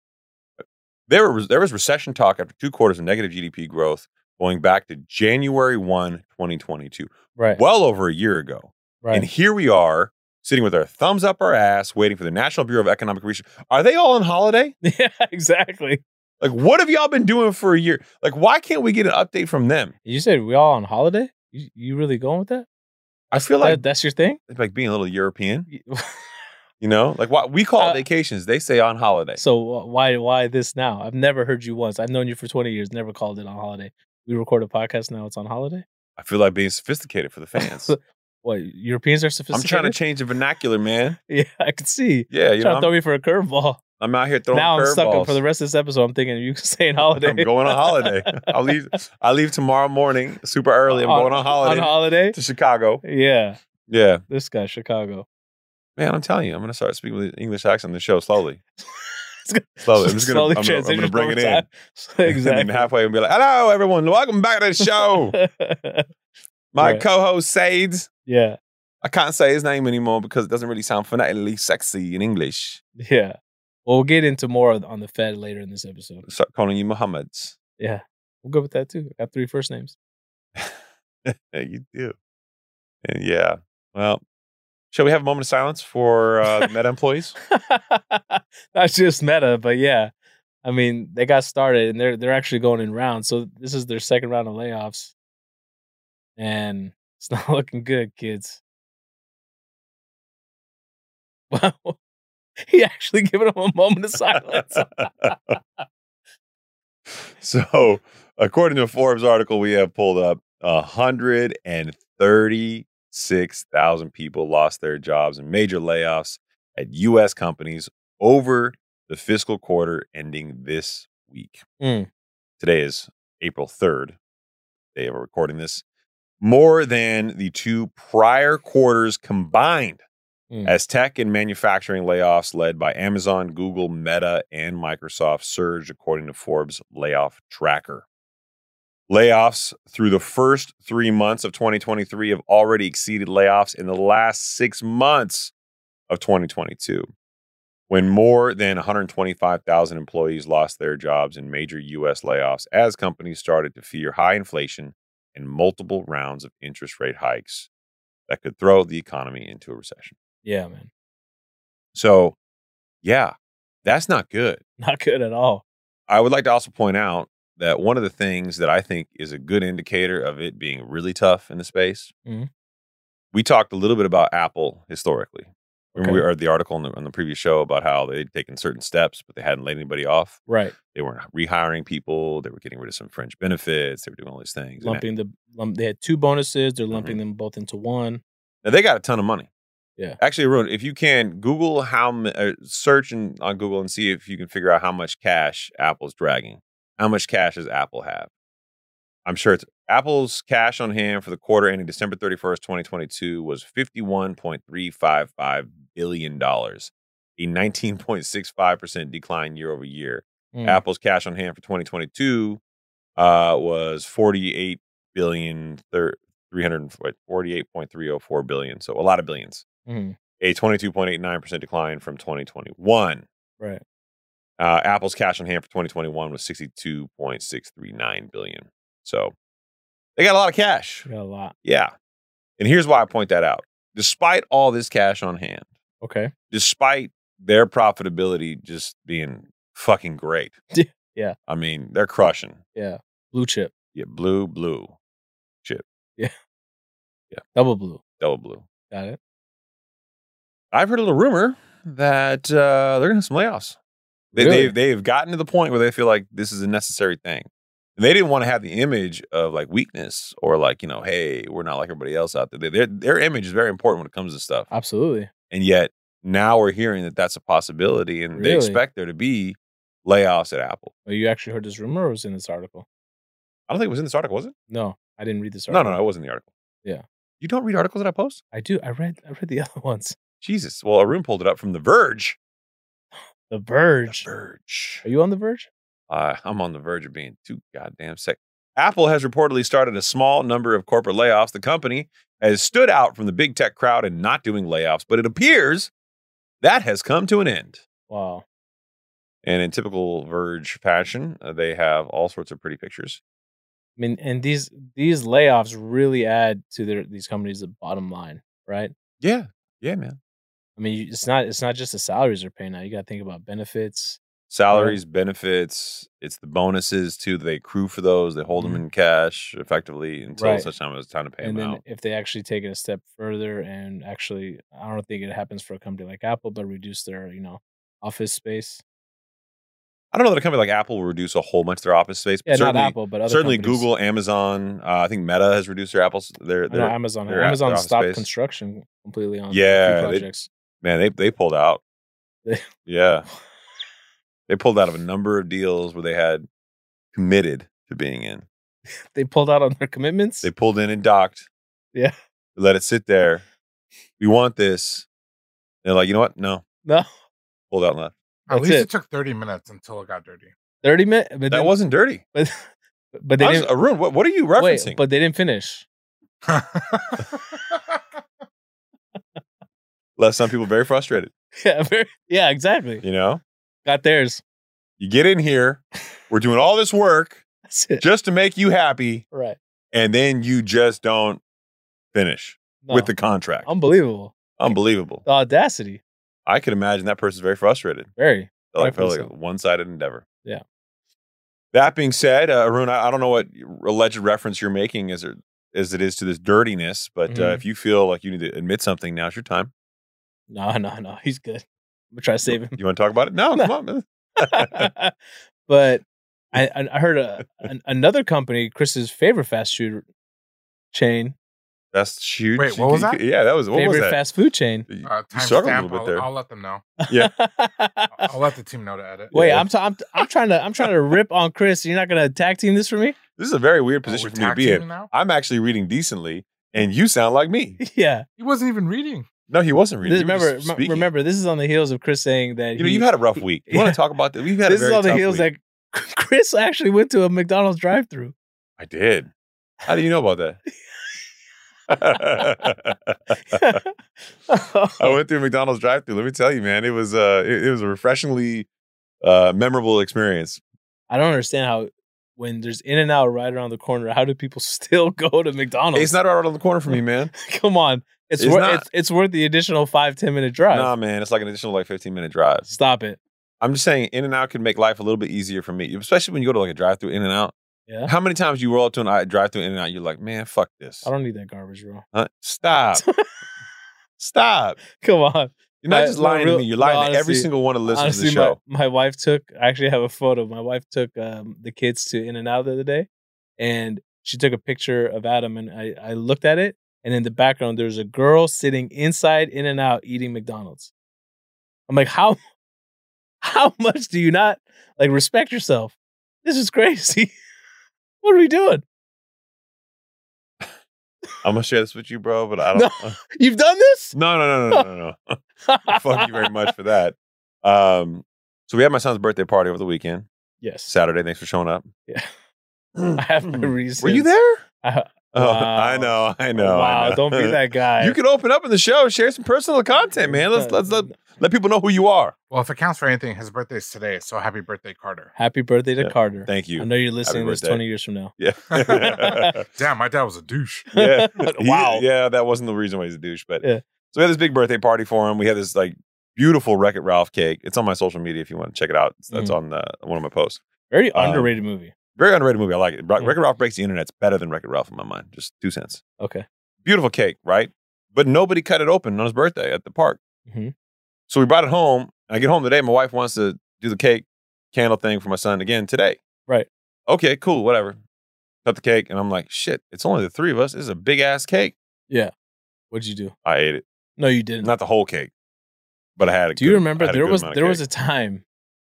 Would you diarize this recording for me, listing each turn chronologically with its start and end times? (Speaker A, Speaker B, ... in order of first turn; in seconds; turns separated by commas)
Speaker A: 0.6-14.7, Speaker B: 9.0-9.3, Speaker B: 14.8-16.0, Speaker A: 16.4-19.9, Speaker B: 20.1-22.7, Speaker A: 23.3-23.8, Speaker B: 23.3-24.4, Speaker A: 24.5-25.7, Speaker B: 25.7-26.4, Speaker A: 26.8-29.4, Speaker B: 27.8-28.0, Speaker B: 29.4-35.8, Speaker A: 36.2-37.9, Speaker B: 37.6-40.0, Speaker A: 39.5-41.2, Speaker B: 41.3-43.8, Speaker A: 42.3-42.9, Speaker A: 44.0-45.4, Speaker B: 44.5-48.5, Speaker A: 47.0-53.0, Speaker B: 50.9-52.4, Speaker B: 53.0-53.6, Speaker A: 53.9-54.2, Speaker B: 54.3-55.3, Speaker A: 56.0-58.6, Speaker B: 58.8-62.9, Speaker A: 59.8-61.6, Speaker A: 62.2-65.4, Speaker B: 64.8-66.1, Speaker A: 66.7-68.1, Speaker B: 66.8-67.0, Speaker B: 68.3-68.6, Speaker A: 69.0-72.8, Speaker B: 73.0-76.2, Speaker A: 76.3-77.6, Speaker B: 77.8-80.0, Speaker A: 80.6-82.1, Speaker A: 83.0-84.2, Speaker A: 84.9-87.4, Speaker B: 87.5-90.1, Speaker B: 90.6-95.1, Speaker B: 96.4-98.6, Speaker B: 101.5-102.0, Speaker B: 102.6-105.1, Speaker A: 104.4-105.6, Speaker A: 107.1-121.7, Speaker B: 121.8-122.1, Speaker A: 122.6-124.2, Speaker A: 125.0-125.8, Speaker A: 126.4-130.0, Speaker A: 130.7-138.1, Speaker A: 139.1-145.5, Speaker A: 146.1-147.1, Speaker A: 147.9-157.7, Speaker A: 158.3-160.2, Speaker B: 160.4-160.9, Speaker A: 161.9-162.4, Speaker A: 163.0-163.3, Speaker A: 163.8-164.6, Speaker B: 164.8-165.6, Speaker A: 166.1-172.1, Speaker A: 173.3-185.0, Speaker B: 176.0-176.2, Speaker B: 180.5-180.8, Speaker B: 184.8-188.2, Speaker A: 186.9-187.2, Speaker A: 188.6-189.5, Speaker A: 190.2-198.3, Speaker A: 199.3-212.6, Speaker B: 210.5-210.8, Speaker A: 213.2-219.7, Speaker B: 219.9-220.2, Speaker A: 220.4-223.3, Speaker A: 224.6-229.3, Speaker A: 230.2-231.1, Speaker B: 231.1-231.6, Speaker A: 231.6-231.9, Speaker A: 232.6-235.7, Speaker B: 236.0-236.3, Speaker A: 236.5-240.5, Speaker B: 240.7-241.3, Speaker A: 241.5-242.6, Speaker B: 242.8-243.7, Speaker A: 243.9-244.9, Speaker B: 247.5-248.0, Speaker A: 248.2-248.7, Speaker B: 248.9-249.2, Speaker A: 250.7-253.8, Speaker B: 254.3-254.7, Speaker A: 254.3-264.7, Speaker B: 264.7-265.3, Speaker A: 265.5-270.9, Speaker B: 268.3-268.8, Speaker B: 271.1-272.9, Speaker A: 273.7-274.5, Speaker B: 274.7-276.0, Speaker A: 275.7-276.5, Speaker A: 277.4-278.4, Speaker B: 278.5-280.2, Speaker A: 280.4-282.4, Speaker B: 283.5-284.3, Speaker A: 284.1-285.1, Speaker B: 285.0-285.7, Speaker A: 286.1-295.9, Speaker A: 296.6-297.8, Speaker B: 298.1-298.4, Speaker A: 299.4-303.2, Speaker B: 304.0-308.9, Speaker A: 309.2-310.2, Speaker B: 310.8-314.2, Speaker A: 314.5-321.8, Speaker B: 314.7-315.0, Speaker B: 318.6-318.8, Speaker B: 320.4-320.7, Speaker B: 321.4-328.8, Speaker A: 330.1-338.3, Speaker B: 332.5-333.9, Speaker B: 336.7-340.5, Speaker A: 339.5-340.3, Speaker A: 340.8-341.8, Speaker A: 342.9-343.3, Speaker A: 344.5-346.5, Speaker A: 347.1-348.5, Speaker B: 349.1-350.5, Speaker A: 350.4-351.5, Speaker A: 352.6-353.4, Speaker A: 354.2-355.1, Speaker A: 355.8-356.6, Speaker A: 357.7-358.1, Speaker C: 358.5-360.5, Speaker B: 358.5-358.9, Speaker B: 360.8-361.7, Speaker A: 361.5-362.2, Speaker B: 362.3-362.6, Speaker B: 363.1-363.7, Speaker A: 363.4-365.0, Speaker B: 364.6-365.9, Speaker C: 366.5-368.0, Speaker B: 369.1-369.4, Speaker A: 370.2-371.3, Speaker B: 371.6-373.0, Speaker A: 373.0-373.4, Speaker B: 373.9-374.4, Speaker A: 375.0-377.4, Speaker B: 377.7-378.1, Speaker A: 378.0-379.2, Speaker B: 379.3-379.6, Speaker A: 379.9-381.4, Speaker A: 382.1-383.7, Speaker B: 382.8-383.1, Speaker B: 383.7-386.0, Speaker A: 384.6-385.2, Speaker A: 386.5-388.1, Speaker B: 388.2-389.3, Speaker A: 388.7-390.2, Speaker A: 391.7-399.7, Speaker B: 397.3-397.6, Speaker B: 400.5-402.8, Speaker A: 402.5-404.9, Speaker B: 404.4-410.1, Speaker B: 410.9-411.4, Speaker A: 411.9-414.2, Speaker C: 412.6-413.2, Speaker B: 413.8-414.9, Speaker A: 414.9-416.2, Speaker C: 415.0-416.9, Speaker B: 417.0-418.3, Speaker C: 418.2-419.3, Speaker A: 419.3-419.7, Speaker B: 419.3-423.2, Speaker A: 423.4-427.8, Speaker C: 424.1-425.1, Speaker B: 427.8-428.3, Speaker C: 428.4-429.3, Speaker A: 429.5-431.1, Speaker B: 430.0-434.0, Speaker A: 432.8-435.5, Speaker B: 434.6-438.3, Speaker A: 438.8-439.3, Speaker A: 439.9-440.6, Speaker B: 440.8-441.2, Speaker A: 441.9-443.8, Speaker B: 442.1-442.7, Speaker B: 443.4-443.9, Speaker B: 444.5-445.2, Speaker A: 445.0-448.7, Speaker A: 449.2-450.6, Speaker B: 451.1-456.1, Speaker A: 455.9-457.3, Speaker B: 456.9-460.9, Speaker A: 458.4-458.9, Speaker A: 460.7-462.7, Speaker B: 462.7-463.2, Speaker A: 463.6-467.5, Speaker A: 468.1-471.1, Speaker B: 471.0-472.1, Speaker A: 472.1-473.0, Speaker B: 472.9-473.3, Speaker A: 474.2-474.8, Speaker B: 474.9-490.9, Speaker A: 475.8-478.6, Speaker B: 491.9-492.4, Speaker B: 493.4-497.4, Speaker B: 498.2-498.8, Speaker A: 501.4-503.2, Speaker B: 502.7-504.1, Speaker A: 504.1-510.3, Speaker B: 505.6-506.5, Speaker B: 510.6-510.9, Speaker A: 510.9-511.9, Speaker A: 513.0-514.6, Speaker B: 513.2-514.3, Speaker B: 514.8-518.2, Speaker A: 515.3-522.3, Speaker B: 520.2-521.2, Speaker C: 522.5-525.3, Speaker B: 525.4-528.3, Speaker A: 526.0-527.8, Speaker A: 528.4-529.6, Speaker C: 528.7-530.9, Speaker B: 528.9-529.5, Speaker B: 530.9-532.0, Speaker A: 530.9-540.6, Speaker B: 540.9-541.9, Speaker A: 541.1-541.5, Speaker A: 542.1-546.0, Speaker B: 546.2-546.5, Speaker A: 546.8-550.2, Speaker B: 550.5-550.7, Speaker A: 551.3-556.2, Speaker A: 557.1-558.0, Speaker A: 558.6-561.8, Speaker B: 562.9-563.3, Speaker A: 563.5-563.8, Speaker B: 564.2-564.7, Speaker A: 564.6-565.3, Speaker A: 566.2-567.8, Speaker B: 566.6-568.4